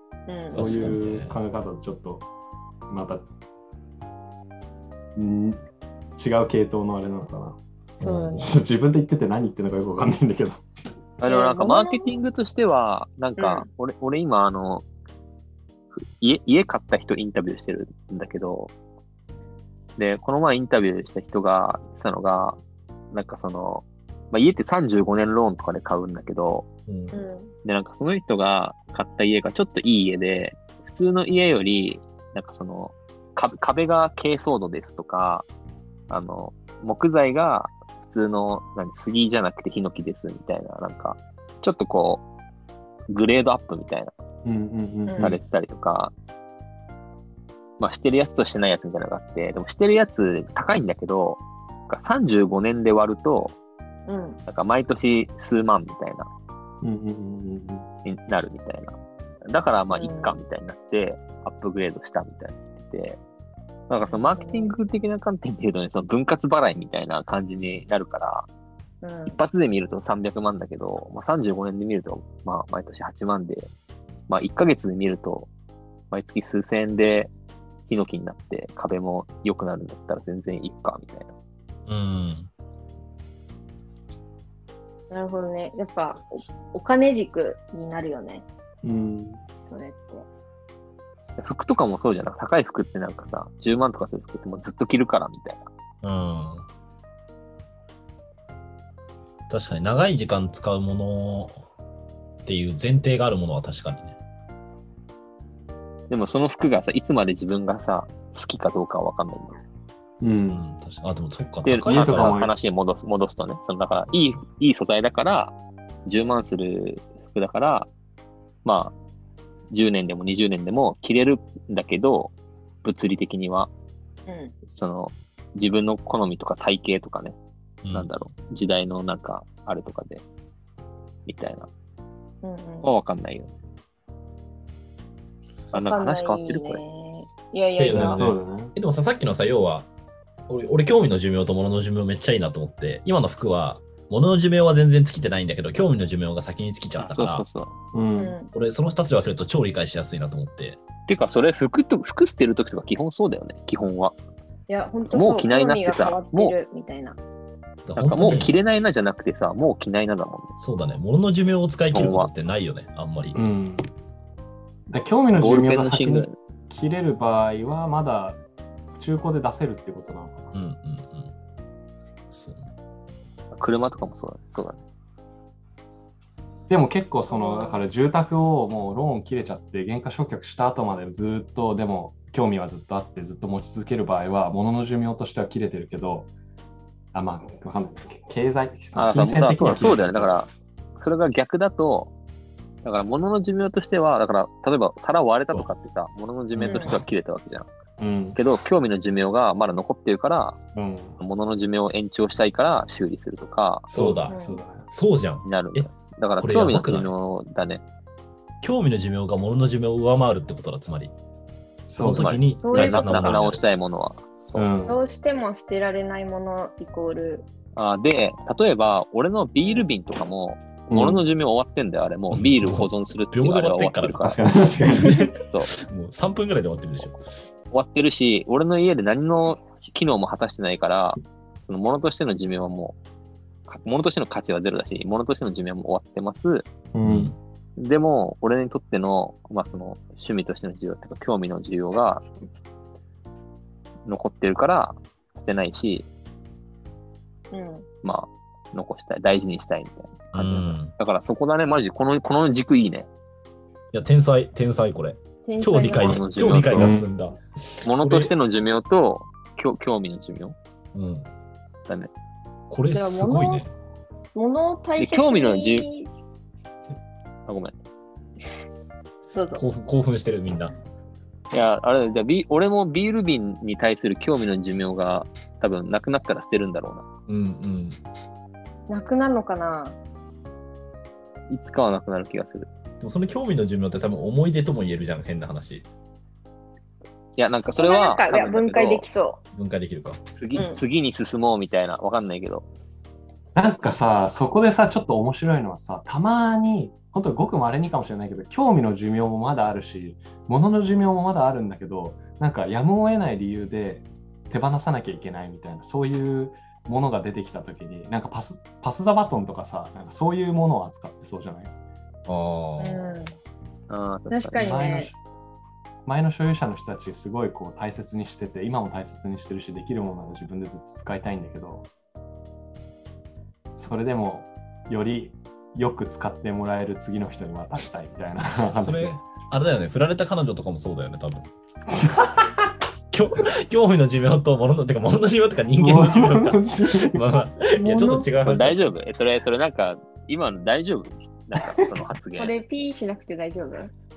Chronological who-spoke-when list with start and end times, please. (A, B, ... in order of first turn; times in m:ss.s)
0:00.3-0:00.9 A
0:00.5-0:02.3 B
0:00.5-0:01.4 C
0:02.9-0:03.3 B
0:05.2-0:05.6 B
0:06.2-0:07.6 B
0:08.0-0:08.5 C
0:08.0-0:08.5 A
0:08.4-0:10.6 B
0:11.2-0:14.8 D
0:11.3-0:12.2 A
0:13.4-0:13.7 A
0:16.0-0:18.7 D
0:20.0-0:22.6 D
0:23.1-0:26.7 D
0:26.9-0:27.1 C
0:27.1-0:27.5 A
0:27.6-0:35.5 D
0:36.1-0:42.2 D
0:43.1-0:44.1 D
0:44.4-0:45.4 B
0:45.1-0:45.3 A
0:45.2-0:46.1 D
0:47.8-0:53.6 D
0:54.1-0:54.4 A
0:54.5-0:56.3 D
0:56.8-0:57.9 B
0:58.0-0:59.0 D
0:59.5-1:03.2 D
0:59.9-1:00.4 A
1:03.9-1:08.5 D
1:04.1-1:04.7 A
1:09.0-1:09.4 A
1:09.3-1:13.7 D
1:14.3-1:15.5 D
1:16.1-1:17.3 D
1:17.9-1:21.3 D
1:21.9-1:22.5 C
1:25.1-1:28.4 A
1:28.8-1:29.4 B
1:29.6-1:30.3 A
1:31.4-1:35.6 D
1:36.0-1:36.7 C
1:39.5-1:41.6 C
1:42.4-1:44.2 C
1:46.1-1:49.6 D
1:50.2-1:50.6 B
1:50.5-1:52.4 C
1:51.6-1:55.6 D
1:51.8-1:52.5 B
1:56.1-1:57.9 D
1:58.6-1:58.9 D
1:59.7-2:02.3 D
2:02.8-2:03.7 D
2:04.3-2:04.5 A
2:04.7-2:07.4 D
2:07.8-2:08.1 C
2:07.9-2:10.2 D
2:11.3-2:11.7 D
2:12.4-2:12.9 A
2:12.8-2:13.5 D
2:15.7-2:16.8 D
2:15.9-2:18.2 A
2:17.8-2:19.9 C
2:17.9-2:18.7 B
2:20.5-2:27.4 C
2:27.0-2:27.7 D
2:27.9-2:28.4 B
2:28.2-2:28.5 A
2:28.5-2:30.8 C
2:31.1-2:34.2 D
2:34.7-2:37.2 A
2:35.1-2:36.6 D
2:37.8-2:38.6 C
2:38.0-2:40.5 D
2:40.6-2:43.4 C
2:41.9-2:42.3 D
2:43.4-2:43.9 B
2:44.9-2:48.4 B
2:45.3-2:46.4 D
2:49.0-2:50.5 B
2:50.5-2:51.3 C
2:52.3-2:52.7 C
2:53.5-2:54.8 D
2:56.7-3:06.3 B
2:57.3-2:57.8 A
3:07.1-3:10.4 B
3:09.0-3:12.1 D
3:12.8-3:17.7 D
3:16.6-3:16.9 B
3:16.6-3:17.0 A
3:18.0-3:18.4 B
3:18.4-3:20.6 D
3:20.8-3:21.2 B
3:21.2-3:23.9 D
3:23.9-3:24.9 B
3:23.9-3:24.4 C
3:24.3-3:24.6 A
3:24.9-3:27.1 C
3:25.4-3:27.8 D
3:28.6-3:31.1 C
3:31.9-3:32.4 B
3:32.0-3:33.6 C
3:32.0-3:34.7 D
3:32.6-3:33.3 A
3:34.6-3:35.0 B
3:34.9-3:37.5 A
3:37.8-3:44.4 D
3:40.9-3:41.2 B
3:42.3-3:47.2 C
3:44.2-3:45.3 B
3:45.5-3:45.7 D
3:47.7-3:53.0 D
3:53.7-3:56.7 D
3:56.9-3:57.3 B
3:57.0-3:57.4 C
3:57.8-4:02.2 D
4:04.1-4:06.1 D
4:07.5-4:07.9 A
4:08.0-4:13.1 D
4:10.3-4:10.9 C
4:13.9-4:18.3 C
4:15.4-4:16.2 A
4:16.0-4:17.0 D
4:16.7-4:17.1 B
4:17.8-4:20.6 D
4:20.9-4:21.3 C
4:22.7-4:23.7 C
4:22.9-4:23.6 A
4:24.4-4:26.1 A
4:25.0-4:25.9 D
4:27.5-4:27.7 D
4:29.3-4:29.6 A
4:29.5-4:30.8 C
4:31.5-4:37.1 D
4:37.3-4:38.0 C
4:38.9-4:40.0 A
4:41.5-4:42.7 D
4:43.0-4:45.9 C
4:47.4-4:49.0 D
4:47.7-4:49.4 A
4:49.5-4:50.2 C
4:50.4-4:52.7 D
4:50.6-4:50.8 A
4:53.6-5:11.7 B
5:12.3-5:13.2 C
5:12.8-5:13.3 A
5:13.9-5:14.6 D
5:14.3-5:15.1 A
5:14.6-5:15.2 B
5:16.1-5:21.9 B
5:23.8-5:29.2 B
5:28.8-5:31.5 C
5:31.9-5:32.7 B
5:33.1-5:38.9 C
5:35.8-5:38.3 B
5:38.4-5:42.6 D
5:41.6-5:41.8 B
5:42.4-5:43.9 A